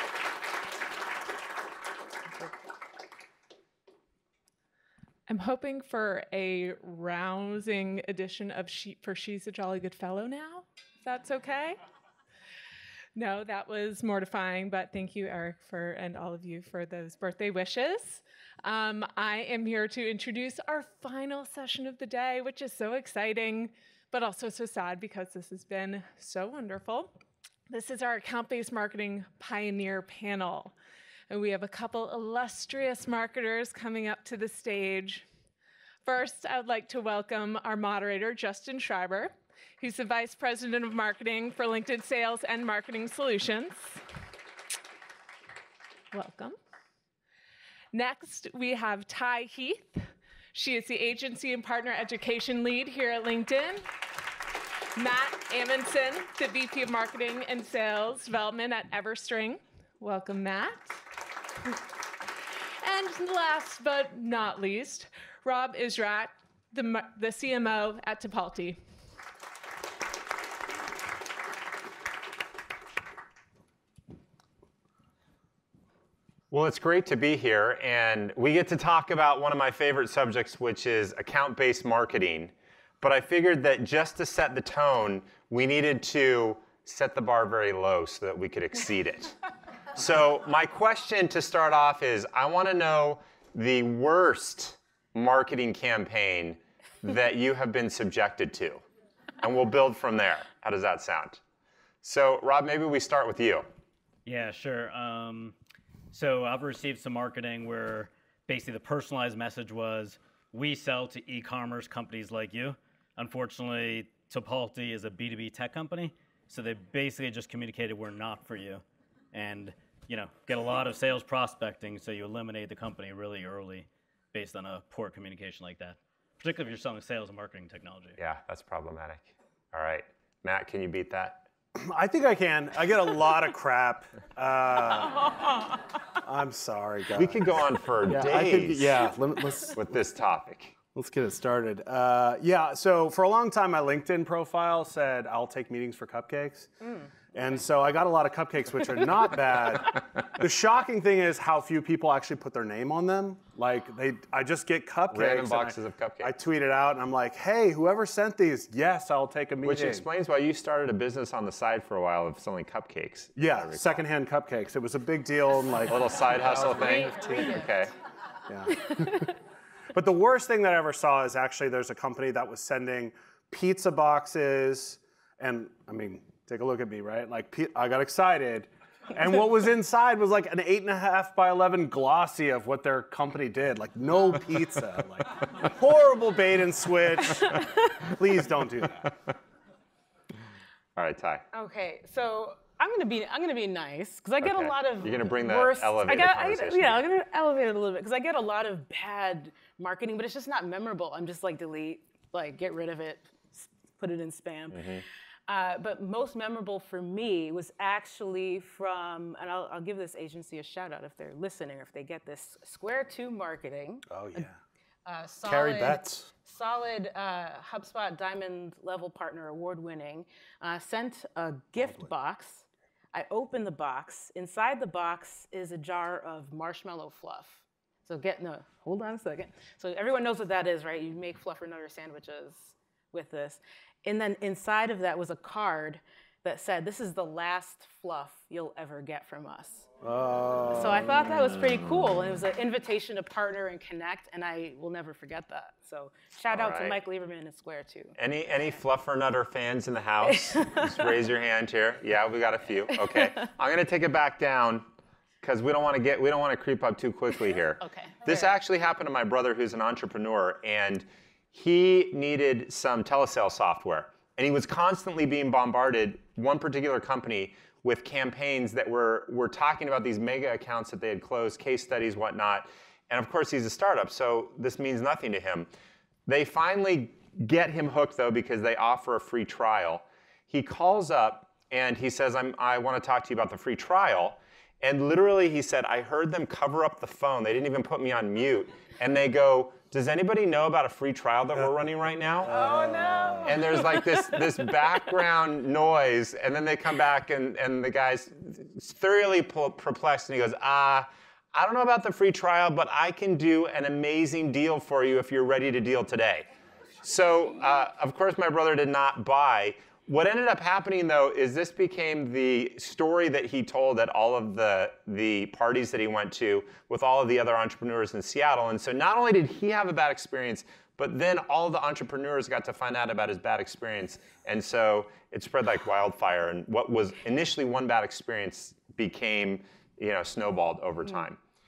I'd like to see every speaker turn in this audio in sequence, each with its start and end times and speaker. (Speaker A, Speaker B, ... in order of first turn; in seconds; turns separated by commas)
Speaker A: 5.3-11.8, Speaker A: 13.1-27.1, Speaker A: 27.7-30.7, Speaker A: 31.3-35.2, Speaker A: 36.0-44.0, Speaker A: 46.1-46.6, Speaker A: 47.9-53.9, Speaker A: 54.9-61.0, Speaker A: 62.8-68.8, Speaker B: 76.5-89.3, Speaker B: 89.9-98.8, Speaker B: 99.4-101.4, Speaker B: 102.0-103.7, Speaker C: 104.2-105.5, Speaker C: 106.1-128.2, Speaker B: 128.2-131.4, Speaker D: 131.8-135.3, Speaker D: 136.2-139.8, Speaker B: 137.2-139.1, Speaker B: 139.7-140.7, Speaker D: 140.9-146.7, Speaker E: 146.8-147.1, Speaker D: 147.3-160.1, Speaker B: 155.1-156.3, Speaker B: 159.6-164.0, Speaker D: 163.3-167.7, Speaker B: 165.9-167.9, Speaker E: 166.7-167.7, Speaker D: 168.5-169.0, Speaker D: 169.9-189.1, Speaker B: 190.9-191.4, Speaker E: 191.5-214.5, Speaker B: 194.4-197.0, Speaker B: 204.7-205.0, Speaker D: 214.1-214.6, Speaker E: 215.0-239.9, Speaker D: 215.4-216.3, Speaker D: 221.8-222.1, Speaker D: 240.0-242.1, Speaker E: 240.7-248.1, Speaker B: 246.5-247.0, Speaker B: 248.2-254.9, Speaker E: 250.2-251.2, Speaker E: 252.9-253.5, Speaker B: 255.4-275.7, Speaker E: 257.8-258.6, Speaker B: 276.3-292.5, Speaker D: 292.5-293.7, Speaker E: 292.6-294.0, Speaker B: 293.4-306.5, Speaker B: 307.0-331.4